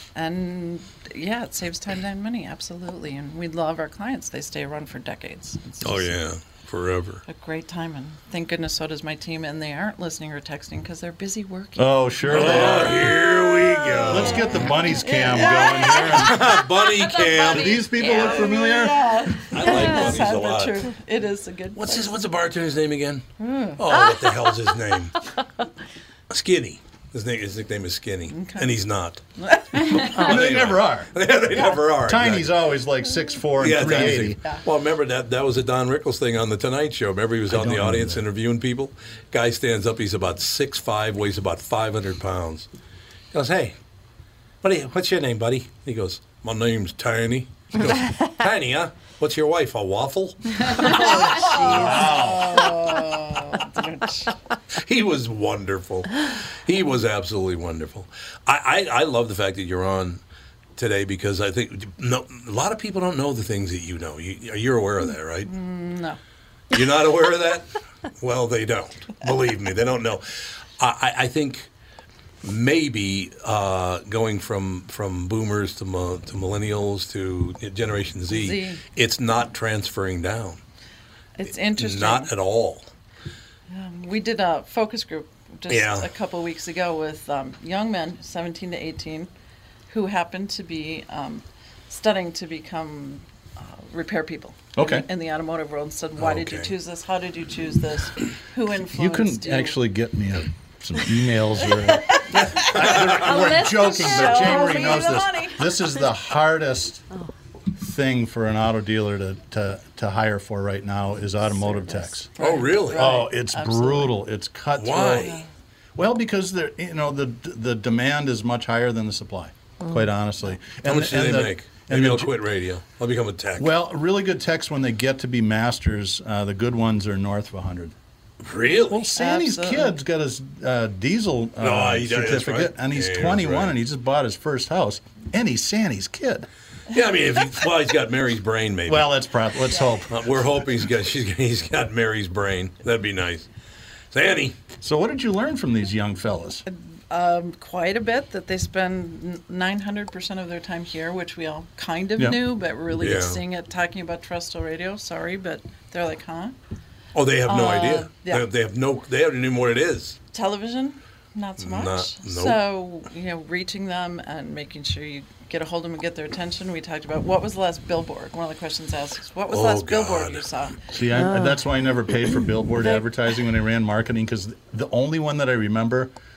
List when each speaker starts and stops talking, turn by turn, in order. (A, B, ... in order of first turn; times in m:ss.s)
0:00.1-0:06.1 A
0:05.8-0:07.2 B
0:07.3-0:22.2 A
0:11.8-0:13.2 C
0:12.3-0:14.5 B
0:14.0-0:16.6 C
0:16.0-0:17.9 B
0:17.4-0:19.3 C
0:19.5-0:20.9 B
0:21.7-0:25.2 B
0:23.4-0:23.9 A
0:26.3-0:29.2 B
0:28.3-0:28.8 A
0:29.4-0:30.3 A
0:29.7-0:32.7 B
0:30.0-0:31.2 C
0:32.0-0:34.4 C
0:33.6-0:42.7 B
0:37.5-0:38.2 C
0:43.3-0:43.8 B
0:44.6-0:52.9 B
0:50.7-0:54.3 A
0:54.8-1:00.2 B
1:00.8-1:05.5 B
1:05.4-1:06.2 A
1:06.7-1:10.2 B
1:10.8-1:11.7 B
1:12.4-1:20.6 B
1:18.3-1:18.8 A
1:21.4-1:22.3 A
1:21.7-1:22.9 B
1:23.7-1:29.3 A
1:25.7-1:26.1 B
1:29.9-1:39.8 A
1:34.7-1:35.1 C
1:36.2-1:36.7 B
1:38.8-1:47.0 C
1:41.6-1:45.7 A
1:42.3-1:43.5 B
1:47.8-1:52.3 C
1:52.3-1:54.2 A
1:52.4-1:53.1 B
1:52.9-1:55.4 C
1:54.8-1:55.4 B
1:56.0-2:02.4 C
2:00.8-2:03.7 B
2:03.6-2:07.9 C
2:08.4-2:09.0 B
2:08.9-2:16.5 C
2:09.1-2:10.0 A
2:11.6-2:13.8 B
2:16.9-2:19.1 B
2:18.9-2:20.3 C
2:20.1-2:23.5 B
2:24.1-2:24.6 B
2:24.8-2:26.6 C
2:26.7-2:36.6 A
2:33.0-2:33.4 B
2:37.1-2:40.2 B
2:37.5-2:38.5 A
2:40.3-2:50.8 A
2:41.6-2:42.6 B
2:49.5-2:50.5 B
2:50.9-2:56.1 C